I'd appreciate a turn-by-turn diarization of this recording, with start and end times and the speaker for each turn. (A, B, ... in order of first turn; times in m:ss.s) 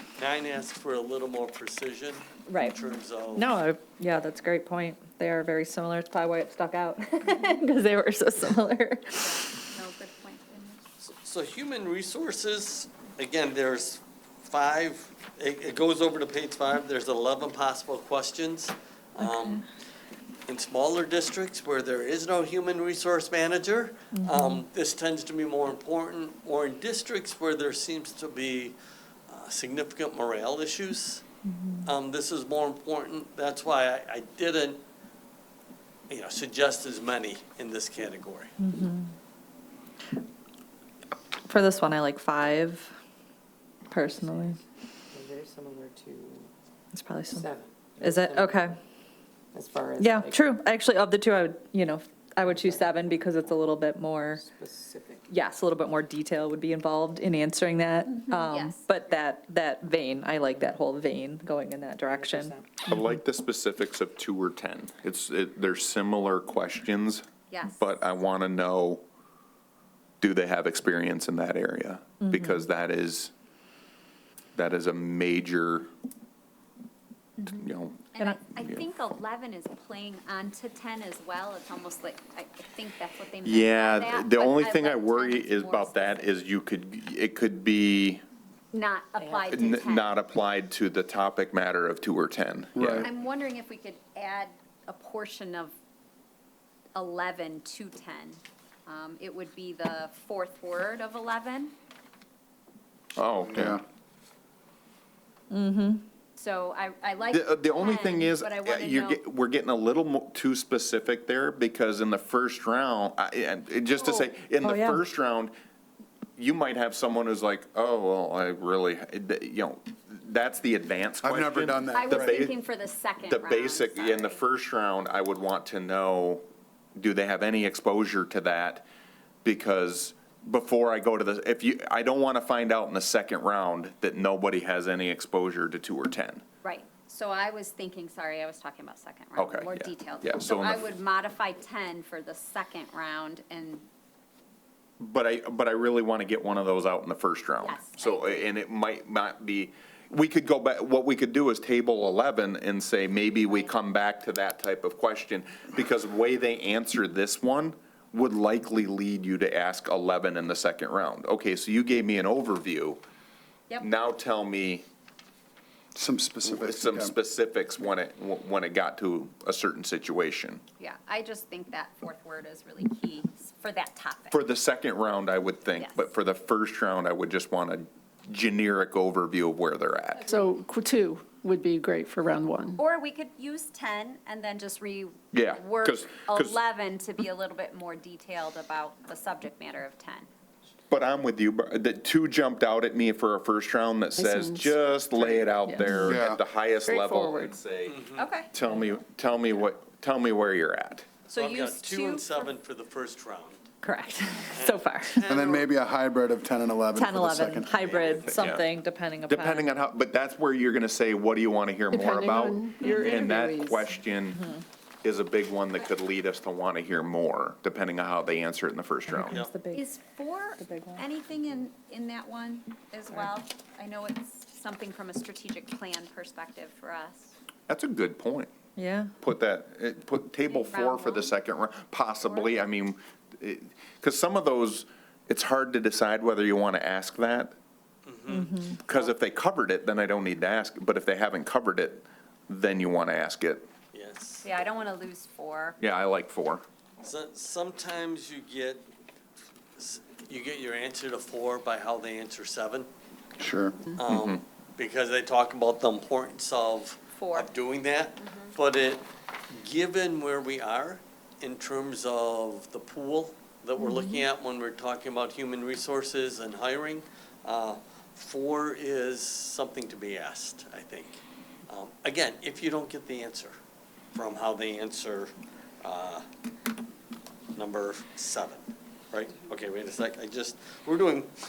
0:00.2-0:03.5 A
0:02.5-0:02.8 B
0:03.4-0:09.5 B
0:09.2-0:10.8 C
0:11.0-0:19.6 A
0:19.2-0:19.6 B
0:20.4-0:28.8 A
0:24.1-0:24.6 B
0:29.3-0:31.2 A
0:31.4-0:31.9 B
0:31.8-0:34.8 A
0:36.1-0:38.5 A
0:38.6-0:39.1 B
0:41.4-0:42.9 B
0:43.9-0:44.6 B
0:43.9-0:46.5 D
0:46.9-0:47.5 B
0:47.3-0:48.8 D
0:48.0-0:48.8 B
0:49.5-0:50.5 D
0:50.0-0:54.4 B
0:52.4-0:53.4 D
0:54.3-0:55.3 D
0:55.3-1:03.1 B
0:58.1-0:59.0 C
1:02.0-1:02.7 D
1:02.9-1:07.2 E
1:07.5-1:08.0 C
1:07.8-1:09.0 E
1:10.2-1:13.3 E
1:12.2-1:12.7 B
1:14.5-1:15.9 E
1:17.4-1:26.4 C
1:17.5-1:18.8 E
1:23.4-1:28.2 E
1:28.7-1:30.1 C
1:29.2-1:29.6 D
1:29.5-1:33.1 E
1:32.8-1:33.1 F
1:33.0-1:35.7 C
1:36.9-1:41.7 C
1:43.2-1:43.8 E
1:43.4-1:43.8 F
1:45.5-1:46.0 B
1:46.4-1:49.2 C
1:47.3-1:55.5 E
1:53.9-1:54.3 C
1:54.6-1:55.0 B
1:56.4-2:02.6 E
2:01.2-2:02.4 F
2:01.9-2:04.4 C
2:03.3-2:06.4 E
2:07.0-2:08.8 E
2:09.4-2:16.4 E
2:16.6-2:23.8 C
2:19.4-2:20.8 E
2:25.0-2:43.0 E
2:27.6-2:28.4 C
2:33.2-2:33.7 C
2:43.8-2:44.8 E
2:45.9-2:47.1 F
2:46.4-2:50.6 E
2:50.8-2:54.4 C
2:54.3-3:00.3 E
2:55.8-2:56.1 C
3:00.2-3:02.8 G
3:02.8-3:10.3 C
3:05.3-3:06.6 E
3:10.9-3:18.0 E
3:14.2-3:14.7 G
3:15.7-3:16.1 G
3:16.0-3:16.4 F
3:16.9-3:17.5 G
3:17.8-3:18.3 A
3:18.2-3:18.5 C
3:18.5-3:21.1 E
3:21.3-3:23.6 A
3:21.3-3:22.5 C
3:23.8-3:25.3 B
3:24.5-3:25.7 A
3:25.3-3:27.8 F
3:26.9-3:29.7 B
3:27.8-3:28.6 A
3:28.2-3:28.6 E
3:29.3-3:34.4 E
3:31.9-3:33.8 G
3:32.8-3:33.1 B
3:34.3-3:34.6 B
3:35.0-3:39.4 E
3:39.1-3:39.9 B
3:39.3-3:39.5 A
3:39.7-3:47.3 C
3:40.6-3:41.0 B
3:47.7-3:48.5 E
3:48.8-3:49.1 B
3:49.2-3:57.5 E
3:50.5-3:51.4 C
3:52.2-3:52.7 C
3:58.0-3:58.5 A
3:58.3-3:58.8 B
3:58.7-4:03.6 E
3:58.9-3:59.1 C
4:03.9-4:04.7 A
4:04.4-4:05.8 C
4:05.8-4:06.6 E
4:07.0-4:08.8 A
4:09.8-4:12.9 A
4:13.4-4:13.8 F
4:14.0-4:33.5 A
4:14.1-4:14.4 E
4:17.1-4:17.5 C
4:18.2-4:18.5 C
4:34.1-4:36.2 A
4:37.5-4:41.4 A